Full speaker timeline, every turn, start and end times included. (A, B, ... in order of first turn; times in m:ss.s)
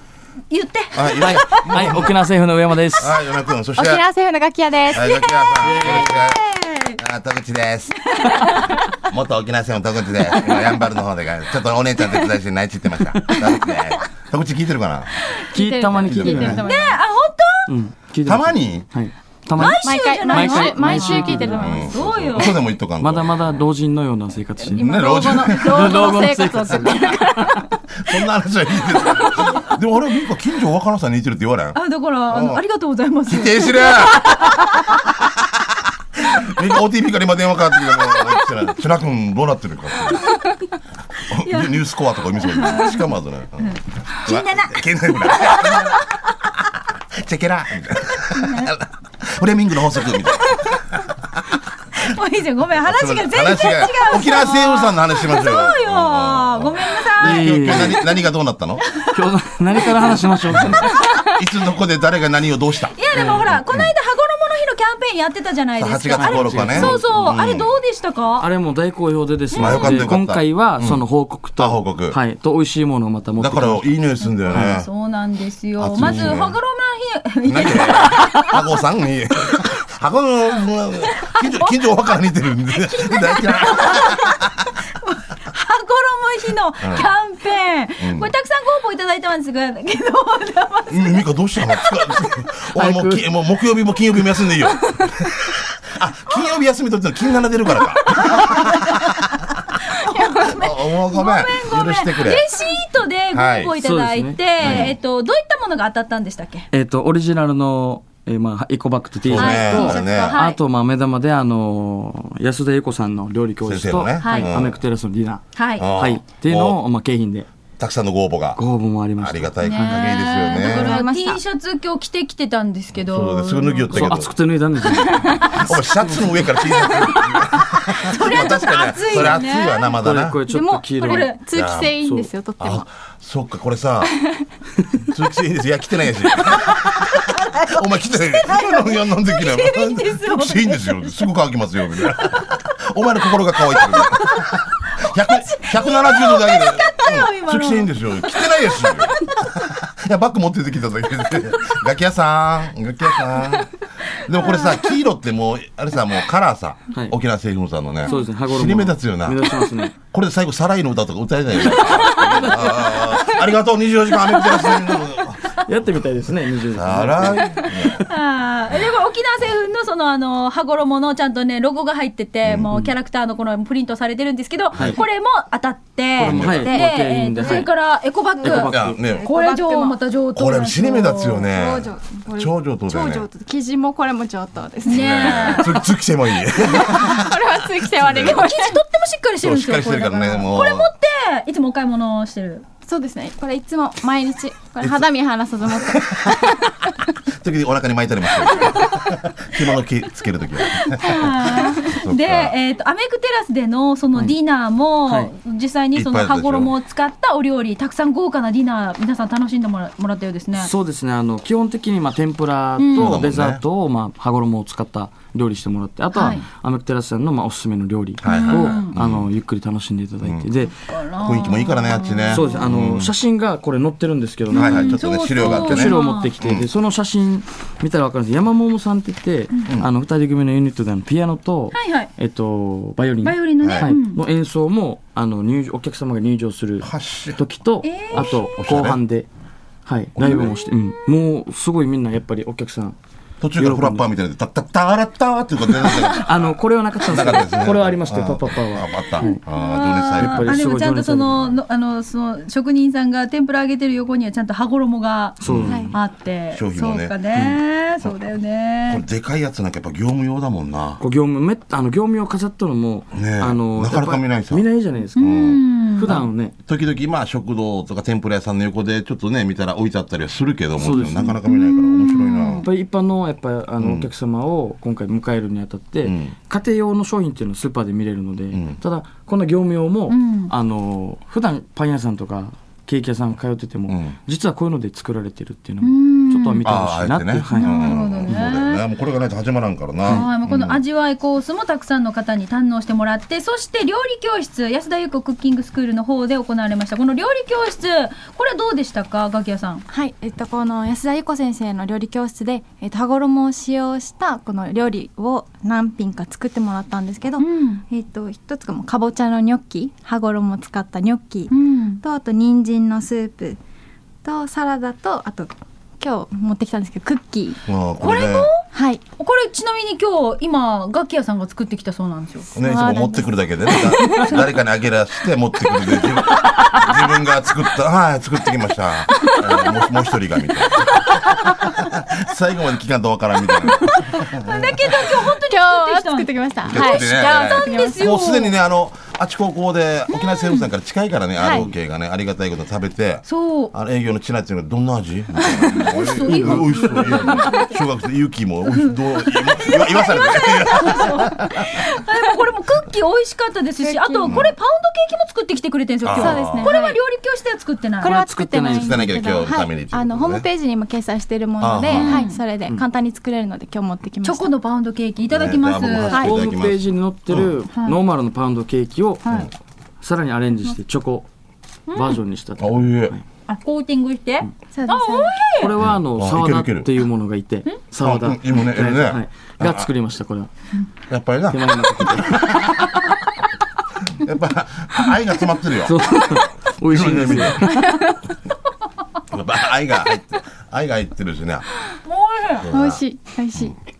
0:00.5-0:01.6 A
0:00.9-0:02.2 B
0:01.2-0:03.2 C
0:03.0-0:04.0 B
0:03.8-0:05.2 D
0:04.9-0:08.3 B
0:04.9-0:07.0 A
0:05.6-0:06.2 C
0:08.0-0:08.8 A
0:09.0-0:15.3 B
0:13.1-0:13.6 C
0:15.4-0:17.0 D
0:15.5-0:16.6 C
0:15.9-0:16.6 B
0:16.6-0:17.7 A
0:17.7-0:21.9 C
0:18.2-0:18.9 B
0:19.6-0:22.6 A
0:19.8-0:22.1 D
0:21.6-0:23.6 B
0:23.0-0:27.7 C
0:24.6-0:27.8 D
0:24.8-0:26.2 B
0:28.0-0:31.8 B
0:29.2-0:29.4 D
0:31.7-0:35.0 A
0:32.3-0:32.6 B
0:33.3-0:40.4 B
0:37.9-0:38.2 A
0:41.3-0:46.1 B
0:41.4-0:41.7 A
0:42.4-0:43.0 A
0:43.6-0:46.2 A
0:46.6-0:51.5 B
0:48.3-0:48.7 A
0:52.0-0:57.8 A
0:52.7-0:58.8 B
0:57.2-0:58.1 C
0:58.9-0:59.2 A
0:59.1-1:01.1 C
1:00.5-1:03.9 B
1:02.9-1:08.5 A
1:03.1-1:03.4 C
1:05.8-1:07.7 B
1:06.2-1:07.0 C
1:08.4-1:13.9 C
1:09.5-1:10.1 A
1:09.5-1:11.0 B
1:11.6-1:12.2 B
1:13.4-1:14.9 B
1:14.2-1:18.6 A
1:14.5-1:14.8 C
1:15.8-1:16.6 B
1:16.0-1:16.3 C
1:17.4-1:24.5 B
1:21.2-1:21.8 A
1:22.7-1:31.2 A
1:26.8-1:27.1 B
1:28.0-1:28.3 B
1:30.9-1:39.6 B
1:31.8-1:32.1 A
1:32.7-1:33.2 C
1:38.0-1:39.2 A
1:39.9-1:46.7 A
1:40.4-1:42.4 B
1:43.3-1:43.7 B
1:43.8-1:44.9 C
1:44.6-1:45.0 B
1:46.7-1:57.5 C
1:49.2-1:50.4 B
1:49.4-1:50.6 A
1:49.7-1:50.3 D
1:53.6-1:54.8 B
1:54.2-1:54.5 A
1:55.5-1:55.9 A
1:55.8-1:56.8 B
1:57.8-1:58.6 B
1:58.6-2:00.1 C
1:59.2-2:01.0 B
1:59.6-2:04.2 A
2:00.4-2:01.4 D
2:02.9-2:04.3 B
2:03.9-2:06.4 C
2:05.0-2:05.6 D
2:05.6-2:10.4 B
2:06.8-2:07.3 D
2:07.7-2:09.8 A
2:09.1-2:09.4 C
2:10.0-2:11.3 C
2:10.5-2:12.8 D
2:11.5-2:11.9 B
2:12.0-2:12.3 C
2:12.6-2:14.1 B
2:14.0-2:14.4 D
2:15.1-2:45.5 B
2:16.4-2:21.2 A
2:22.1-2:22.5 A
2:23.7-2:28.9 A
2:34.4-2:34.7 A
2:38.0-2:40.0 C
2:41.7-2:43.1 A
2:44.3-2:45.0 A
2:45.6-2:48.0 C
2:46.7-2:48.1 B
2:48.0-3:01.5 A
2:52.4-2:52.7 B
2:54.7-2:55.0 B
2:54.7-2:55.0 C
2:56.2-2:56.8 B
2:56.2-2:57.7 C
2:58.4-2:59.0 C
2:58.4-2:59.3 B
2:59.0-3:00.0 D
3:00.3-3:03.3 B
3:01.5-3:05.8 D
3:04.8-3:05.9 A
3:04.9-3:08.5 B
3:06.6-3:08.8 D
3:08.1-3:12.6 A
3:09.4-3:10.9 B
3:12.8-3:16.9 D
3:15.8-3:16.6 B
3:17.4-3:22.6 B
3:18.4-3:19.0 D
3:20.7-3:30.7 A
3:25.9-3:26.7 B
3:30.6-3:40.7 C
3:32.8-3:33.2 A
3:32.9-3:33.6 B
3:36.1-3:36.4 D
3:36.2-3:36.4 A
3:38.2-3:39.3 B
3:38.2-3:39.0 A
3:40.2-3:40.5 B
3:40.9-3:42.6 A
3:41.2-3:43.1 B
3:42.3-3:59.3 C
3:44.5-3:46.3 A
3:44.5-3:46.7 B
3:51.7-3:52.1 A
3:53.2-3:54.2 A
3:53.6-3:53.9 B
3:56.8-3:57.4 B
3:57.8-3:58.4 A
3:58.1-3:59.0 B
3:59.8-4:03.0 C
4:00.2-4:00.7 B
4:00.3-4:00.7 A
4:03.4-4:10.7 B
4:03.6-4:04.1 C
4:05.8-4:09.4 C
4:09.2-4:15.4 A
4:10.2-4:11.5 C
4:15.4-4:16.0 C
4:15.4-4:15.9 B
4:15.7-4:15.9 D
4:15.9-4:19.0 A
4:16.5-4:17.2 B
4:18.9-4:21.0 B
4:21.0-4:26.5 C
4:23.1-4:24.6 B
4:25.2-4:26.2 A
4:25.2-4:32.6 B
4:30.8-4:31.4 C
4:31.4-4:32.6 A
4:32.6-4:48.3 C
4:33.8-4:34.1 B
4:36.0-4:36.3 B
4:38.5-4:38.8 B
4:40.1-4:40.5 A
4:43.9-4:44.2 B
4:45.8-4:46.7 A
4:46.6-4:50.8 B
4:47.5-4:48.8 A
4:50.1-4:59.8 A
4:59.9-5:13.6 D
5:07.4-5:07.8 A
5:11.5-5:12.0 A
5:14.2-5:17.6 D
5:17.6-5:18.5 B
5:18.0-5:18.6 A
5:18.7-5:19.0 D
5:19.2-5:22.5 A
5:22.5-5:24.5 D
5:22.5-5:35.1 B
5:31.0-5:31.5 A
5:33.9-5:38.6 A
5:35.4-5:38.0 D
5:36.6-5:51.8 B
5:40.1-5:40.6 A
5:41.4-5:41.7 D
5:43.2-5:43.7 A
5:45.4-5:46.0 D
5:45.7-5:47.8 A
5:46.2-5:47.3 C
5:47.3-5:47.6 D
5:48.7-5:58.2 A
5:53.8-5:54.4 D
5:54.2-5:54.5 B
5:56.0-5:56.7 B
5:56.1-5:57.0 D
5:58.0-6:04.5 D
5:58.0-5:59.2 C
5:58.6-6:00.5 B
6:01.6-6:02.2 B
6:01.9-6:02.4 A
6:04.2-6:06.2 A
6:05.3-6:07.5 B
6:06.1-6:09.5 C
6:06.1-6:06.4 D
6:07.7-6:08.0 A
6:09.2-6:09.5 B
6:10.0-6:11.3 C
6:11.9-6:12.2 A
6:11.9-6:13.2 C
6:12.6-6:13.1 B
6:13.5-6:15.7 A
6:14.7-6:15.4 D
6:15.6-6:20.5 C
6:15.8-6:16.9 B
6:18.0-6:19.9 B
6:21.1-6:23.1 B
6:21.5-6:23.2 C
6:24.1-6:27.9 B
6:25.8-6:28.1 C
6:27.7-6:28.1 D
6:29.3-6:31.7 B
6:32.0-6:32.7 A
6:32.6-6:33.0 B
6:32.7-6:33.7 D